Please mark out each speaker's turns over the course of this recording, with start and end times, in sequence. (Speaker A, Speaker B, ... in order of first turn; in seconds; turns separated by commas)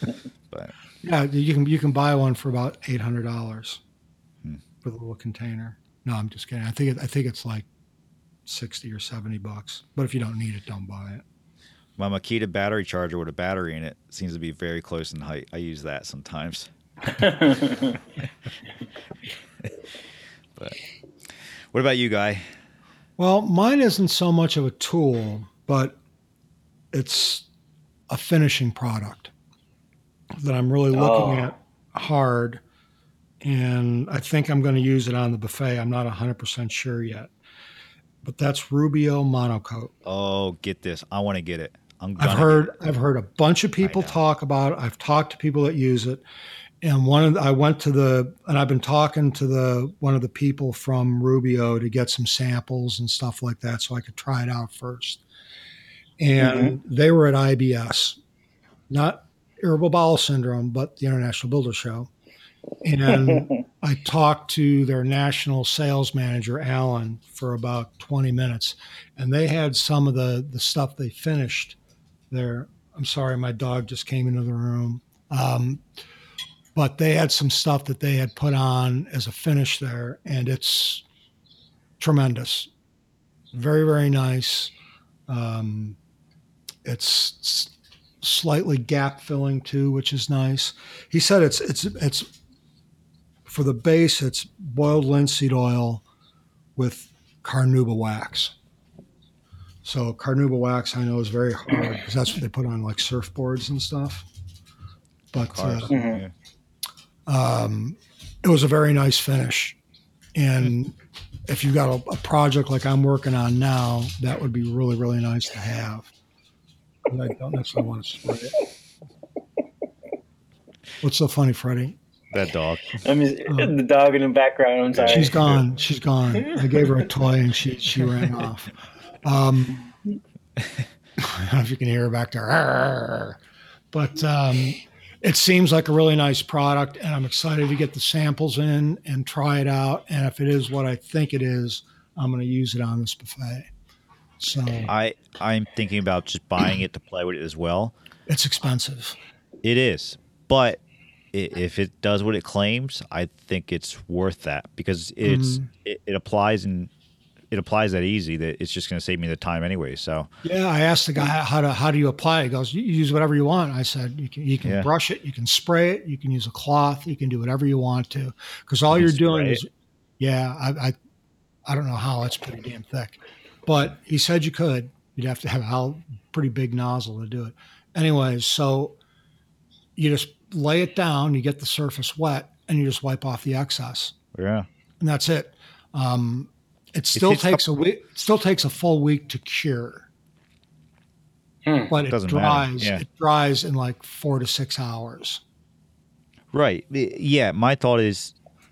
Speaker A: 1.0-3.8, Speaker A: 4.8-7.7, Speaker A: 8.4-11.2, Speaker B: 12.0-17.2, Speaker C: 17.2-17.9, Speaker B: 21.7-22.5, Speaker A: 23.2-26.0, Speaker A: 26.9-27.4, Speaker A: 28.1-29.3, Speaker A: 30.3-32.6, Speaker C: 30.9-31.5, Speaker A: 33.4-37.3, Speaker A: 38.2-39.9, Speaker B: 40.0-42.7, Speaker A: 42.2-46.2, Speaker B: 43.8-44.2, Speaker A: 46.8-55.2, Speaker A: 56.2-58.2, Speaker C: 56.4-56.8, Speaker A: 58.9-62.1, Speaker A: 62.8-71.8, Speaker A: 72.3-75.8, Speaker A: 76.7-81.0, Speaker A: 82.0-82.7, Speaker A: 83.5-84.7, Speaker A: 85.3-86.0, Speaker A: 86.8-92.3, Speaker A: 93.5-96.0, Speaker A: 96.8-98.5, Speaker A: 99.8-104.2, Speaker A: 105.3-105.9, Speaker B: 105.3-106.3, Speaker C: 105.9-106.2, Speaker A: 107.3-109.8, Speaker A: 110.3-116.1, Speaker A: 117.1-118.5, Speaker A: 121.0-122.0, Speaker B: 122.3-123.0, Speaker C: 123.0-125.5, Speaker A: 123.5-123.7, Speaker B: 125.0-125.5, Speaker A: 125.1-128.7, Speaker A: 129.2-129.9, Speaker A: 131.2-133.4, Speaker A: 133.9-143.7, Speaker A: 144.4-144.9, Speaker B: 144.8-147.9, Speaker A: 148.3-149.2, Speaker B: 149.6-150.8, Speaker B: 151.3-156.9, Speaker A: 155.2-155.7, Speaker B: 157.5-160.3, Speaker A: 160.4-169.7, Speaker B: 164.6-164.9, Speaker B: 168.9-169.6, Speaker A: 170.2-170.9, Speaker A: 171.7-179.0, Speaker A: 179.9-184.1, Speaker B: 184.3-184.7, Speaker A: 185.0-190.1, Speaker B: 187.1-187.6, Speaker C: 191.7-191.9, Speaker A: 191.9-195.4, Speaker B: 192.0-193.0, Speaker B: 196.5-198.3